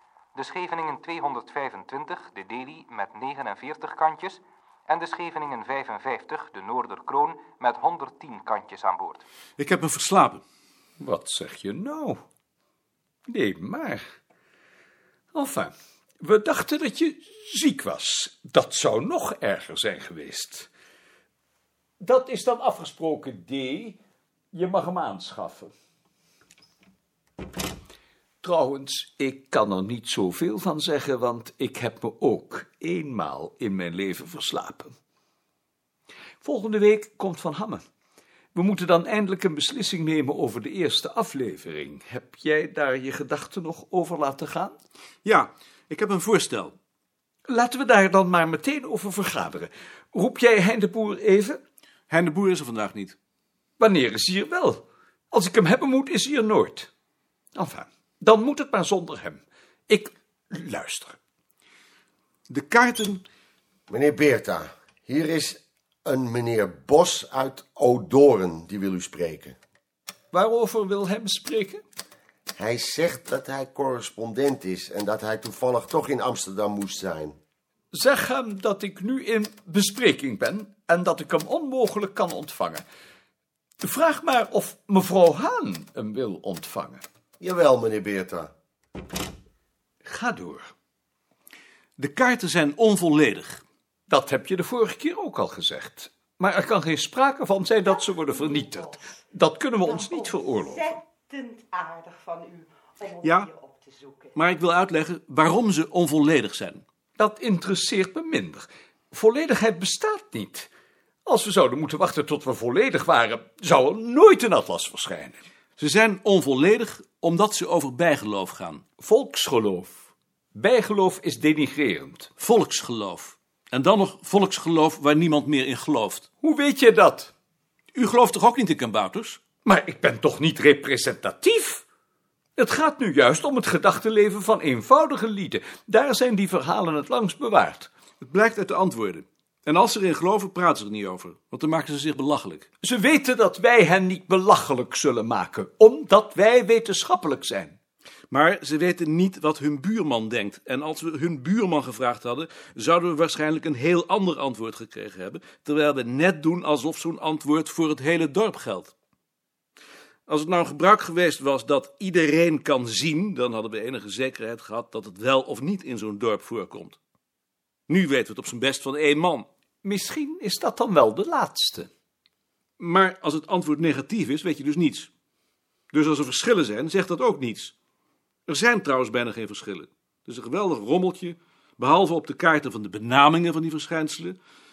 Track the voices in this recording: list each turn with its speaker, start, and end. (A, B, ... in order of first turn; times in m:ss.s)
0:00.3-0:09.2 A
0:09.6-0:10.4 B
0:11.0-0:12.2 C
0:13.3-0:14.0 C
0:15.3-0:20.7 C
0:22.0-0:24.0 C
0:24.5-0:25.7 C
0:28.4-0:34.9 C
0:36.4-0:37.8 C
0:38.5-0:44.8 C
0:45.2-0:46.8 B
0:47.5-0:51.6 C
0:52.1-0:53.2 B
0:53.8-0:56.9 C
0:57.5-1:01.2 C
1:02.5-1:03.2 B
1:03.9-1:09.6 D
1:10.3-1:11.8 C
1:12.5-1:17.4 D
1:17.9-1:22.8 C
1:23.8-1:27.0 C
1:27.4-1:28.5 D
1:30.0-1:30.7 C
1:32.0-1:33.6 B
1:34.1-1:41.0 C
1:39.9-1:44.3 E
1:43.2-1:43.5 B
1:44.3-1:46.8 B
1:47.2-1:50.7 C
1:51.2-1:55.4 C
1:55.8-1:58.8 B
1:59.0-1:59.9 C
2:00.5-2:02.3 C
2:02.4-2:06.2 B
2:06.4-2:07.3 C
2:07.9-2:09.4 B
2:09.6-2:11.8 C
2:12.6-2:17.9 C
2:18.2-2:22.6 B
2:22.8-2:27.8 C
2:28.3-2:38.9 B
2:40.3-2:47.0 B
2:47.9-2:49.5 B
2:49.8-2:51.9 C
2:52.8-2:55.1 B
2:55.9-2:57.7 B
2:58.5-3:04.4 B